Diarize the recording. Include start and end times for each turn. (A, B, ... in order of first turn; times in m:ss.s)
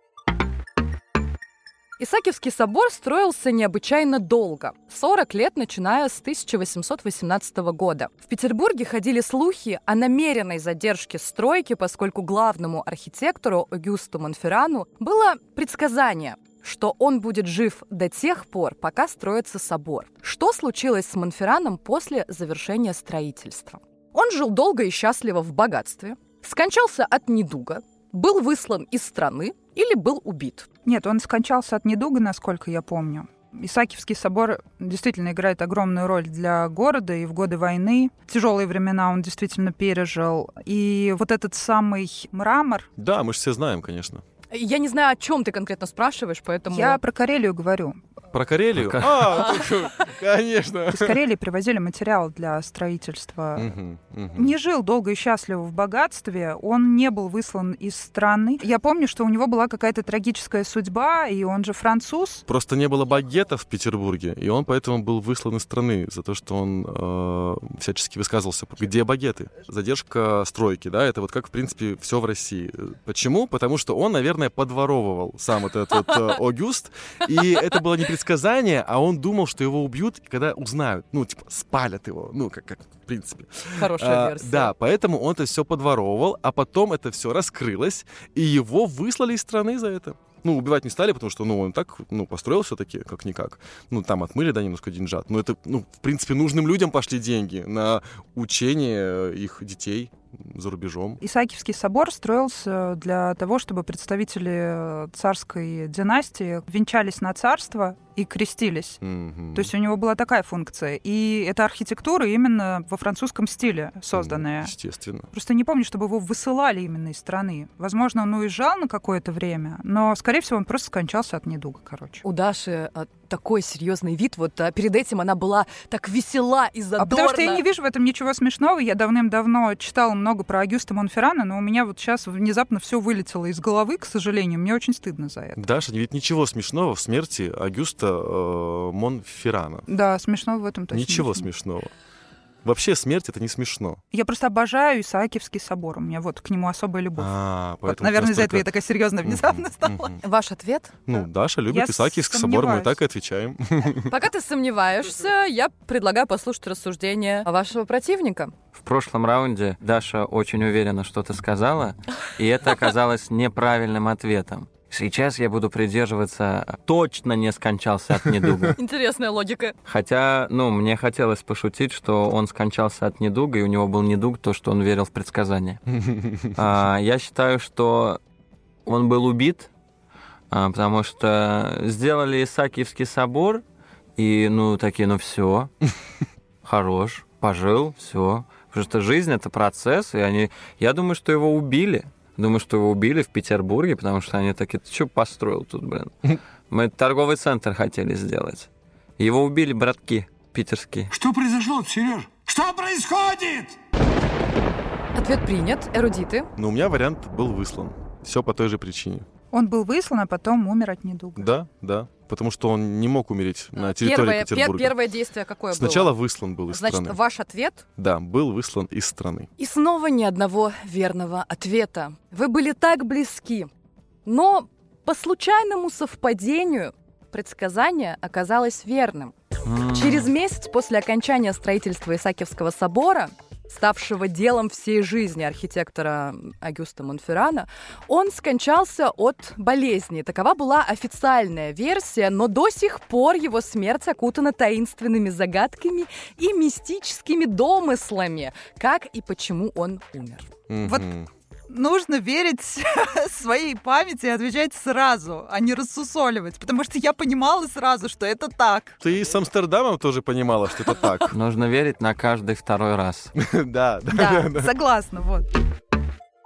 0:02.0-0:30.7 A
0:30.8-0:42.9 B
0:43.0-0:44.2 C
0:44.5-0:47.0 A
0:46.7-0:48.0 B
0:48.3-0:51.2 C
0:49.3-0:49.8 A
0:50.9-0:53.7 B
0:53.6-0:54.6 C
0:54.4-1:02.4 B
1:02.5-1:41.2 C
1:23.7-1:24.7 A
1:41.2-1:49.0 B
1:49.0-1:49.7 C
1:49.5-1:54.7 B
1:54.1-1:55.3 C
1:55.3-2:02.2 B
2:02.2-2:07.6 A
2:07.0-2:15.6 B
2:15.6-2:19.9 C
2:19.9-2:21.5 B
2:20.9-2:21.9 C
2:22.6-2:24.0 C
2:24.1-2:27.3 B
2:27.2-2:28.7 C
2:27.8-2:30.2 B
2:29.2-2:30.2 C
2:30.2-2:30.9 A
2:31.1-2:34.1 C
2:31.7-2:33.0 B
2:34.1-2:38.5 A
2:38.8-2:48.8 D
2:48.8-2:49.8 A
2:49.9-2:55.8 D
2:56.0-2:56.5 C
2:56.5-2:58.2 D
2:58.9-2:59.7 D
3:00.5-3:03.6 D
3:04.2-3:05.7 D
3:06.6-3:21.1 D
3:21.1-3:23.8 E
3:25.1-3:26.5 A
3:26.6-3:29.3 C
3:29.5-3:31.5 B
3:31.4-3:35.0 C
3:33.8-3:36.1 A
3:35.7-3:37.2 C
3:36.7-3:37.8 A
3:38.0-3:39.5 C
3:39.6-3:43.7 A
3:44.2-3:49.4 A
3:49.6-3:50.3 D
3:49.9-4:10.5 A
4:10.7-4:11.3 C
4:11.7-4:19.0 B
4:19.0-4:21.3 C
4:21.3-4:23.3 D
4:23.4-4:24.7 C
4:24.1-4:25.5 B